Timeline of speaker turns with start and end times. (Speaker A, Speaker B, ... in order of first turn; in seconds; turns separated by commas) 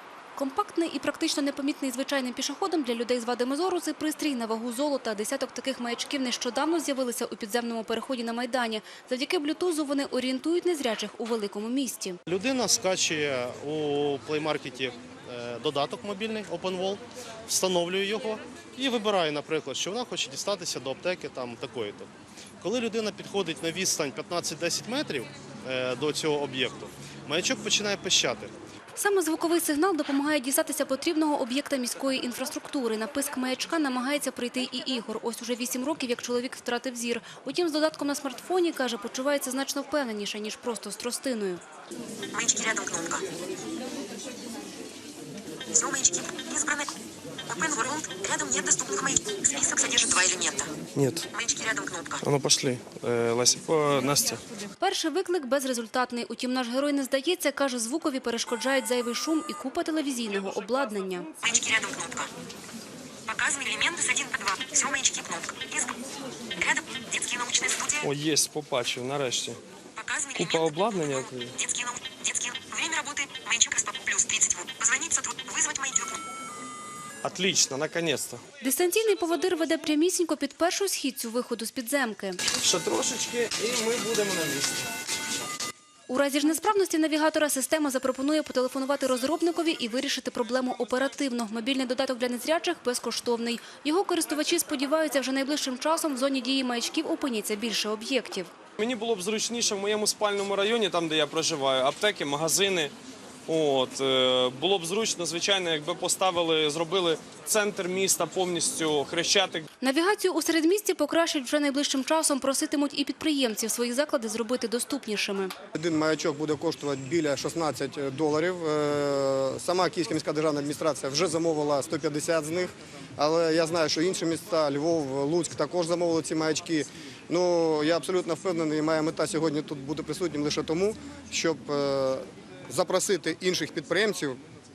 Speaker A: 0.4-12.2, Speaker B: 12.3-28.5, Speaker A: 29.0-41.6, Speaker C: 42.3-43.3, Speaker C: 45.7-47.0, Speaker C: 47.5-50.7, Speaker D: 51.0-51.3, Speaker C: 51.3-52.2, Speaker D: 52.2-54.4, Speaker A: 54.8-61.3, Speaker C: 61.4-62.3, Speaker C: 63.3-66.0, Speaker C: 66.6-68.1, Speaker D: 68.0-69.6, Speaker C: 70.0-76.2, Speaker D: 70.3-71.6, Speaker D: 77.2-78.4, Speaker A: 78.6-82.4, Speaker D: 82.6-84.9, Speaker A: 86.1-98.5, Speaker D: 98.8-102.9, Speaker D: 103.5-109.7, Speaker A: 109.8-115.5, Speaker E: 115.8-134.4